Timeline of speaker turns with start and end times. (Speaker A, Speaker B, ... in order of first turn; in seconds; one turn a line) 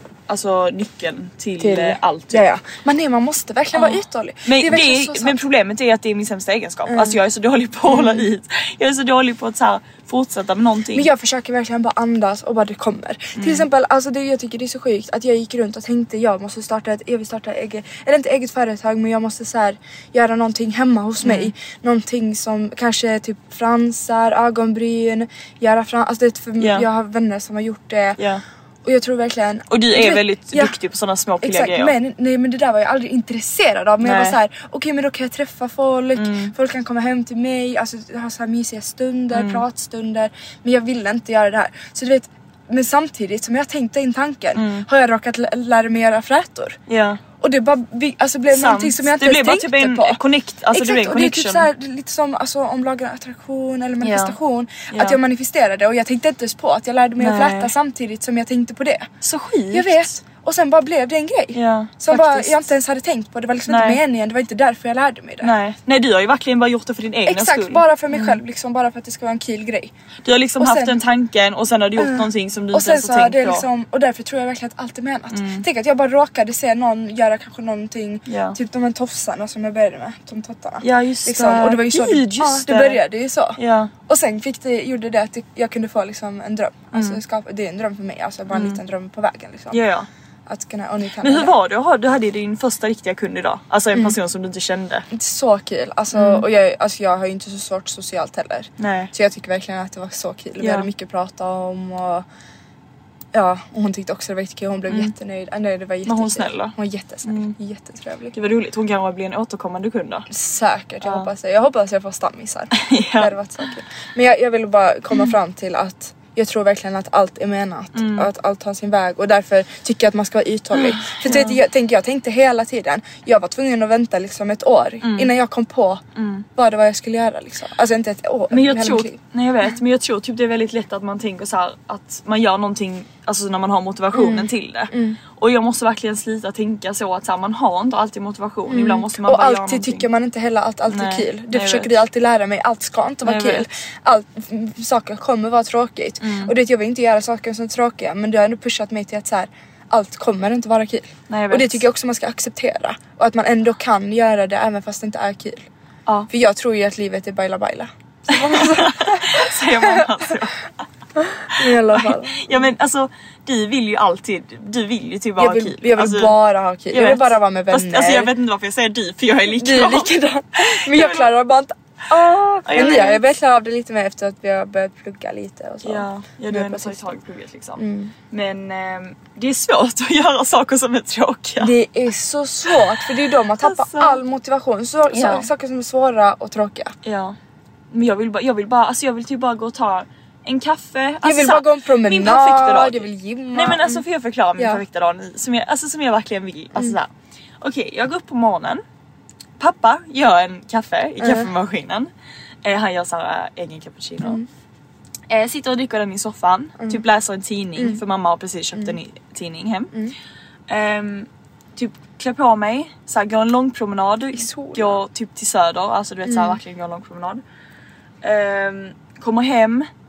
Speaker A: 0.3-2.4
Speaker B: 1.6-5.4
Speaker A: 3.7-11.1
Speaker B: 6.9-7.2
Speaker B: 7.8-8.3
Speaker B: 10.9-28.2
Speaker A: 13.3-13.7
Speaker A: 21.2-21.5
Speaker A: 26.6-26.9
Speaker A: 28.2-28.4
Speaker B: 28.8-30.7
Speaker A: 29.7-31.9
Speaker B: 31.4-46.8
Speaker A: 34.0-34.4
Speaker A: 36.1-36.5
Speaker A: 39.3-39.6
Speaker A: 44.5-44.9
Speaker A: 46.9-47.2
Speaker B: 47.4-50.2
Speaker A: 48.5-51.7
Speaker B: 50.7-59.1
Speaker A: 54.0-54.4
Speaker A: 54.9-55.2
Speaker A: 57.2-57.7
Speaker A: 59.2-60.1
Speaker B: 59.7-65.5
Speaker A: 61.5-62.6
Speaker A: 63.7-64.0
Speaker A: 65.4-68.4
Speaker B: 67.3-69.9
Speaker A: 70.2-73.7
Speaker B: 70.6-71.0
Speaker B: 72.0-89.8
Speaker A: 75.3-75.6
Speaker A: 78.3-78.6
Speaker A: 80.8-83.0
Speaker A: 83.5-83.9
Speaker A: 86.9-87.2
Speaker A: 88.5-88.8
Speaker A: 89.7-90.1
Speaker B: 90.5-91.5
Speaker A: 91.2-95.0
Speaker B: 95.1-102.2
Speaker A: 96.1-96.5
Speaker A: 98.8-99.1
Speaker A: 100.6-100.9
Speaker B: 103.3-108.3
Speaker A: 104.9-105.1
Speaker A: 106.0-106.7
Speaker A: 107.2-107.5
Speaker A: 108.3-110.3
Speaker B: 110.3-126.0
Speaker A: 111.0-111.3
Speaker A: 112.7-113.7
Speaker A: 117.9-118.3
Speaker A: 120.7-121.6
Speaker A: 125.0-125.3
Speaker A: 126.1-126.5
Speaker B: 126.5-129.2
Speaker A: 128.5-140.1
Speaker B: 134.1-135.2
Speaker B: 138.7-155.7
Speaker A: 140.9-141.9
Speaker A: 143.2-143.7
Speaker A: 146.2-146.5
Speaker A: 151.3-151.8
Speaker B: 156.3-160.0
Speaker A: 158.3-160.7
Speaker B: 161.2-162.7
Speaker A: 161.5-166.3
Speaker B: 165.4-168.3
Speaker A: 166.9-171.3
Speaker B: 169.5-177.1
Speaker A: 172.1-173.2
Speaker A: 175.8-181.7
Speaker B: 177.8-178.1
Speaker B: 181.6-186.9
Speaker A: 182.7-183.0
Speaker A: 183.6-184.2
Speaker A: 185.1-185.5
Speaker A: 187.0-187.3
Speaker A: 187.9-197.1
Speaker B: 191.2-194.0
Speaker B: 194.6-194.8
Speaker A: 197.6-198.8
Speaker A: 199.6-202.1
Speaker B: 201.2-201.5
Speaker A: 202.6-204.4
Speaker A: 205.3-209.9
Speaker A: 210.7-217.4
Speaker B: 214.3-215.0
Speaker B: 216.2-216.6
Speaker A: 218.2-219.9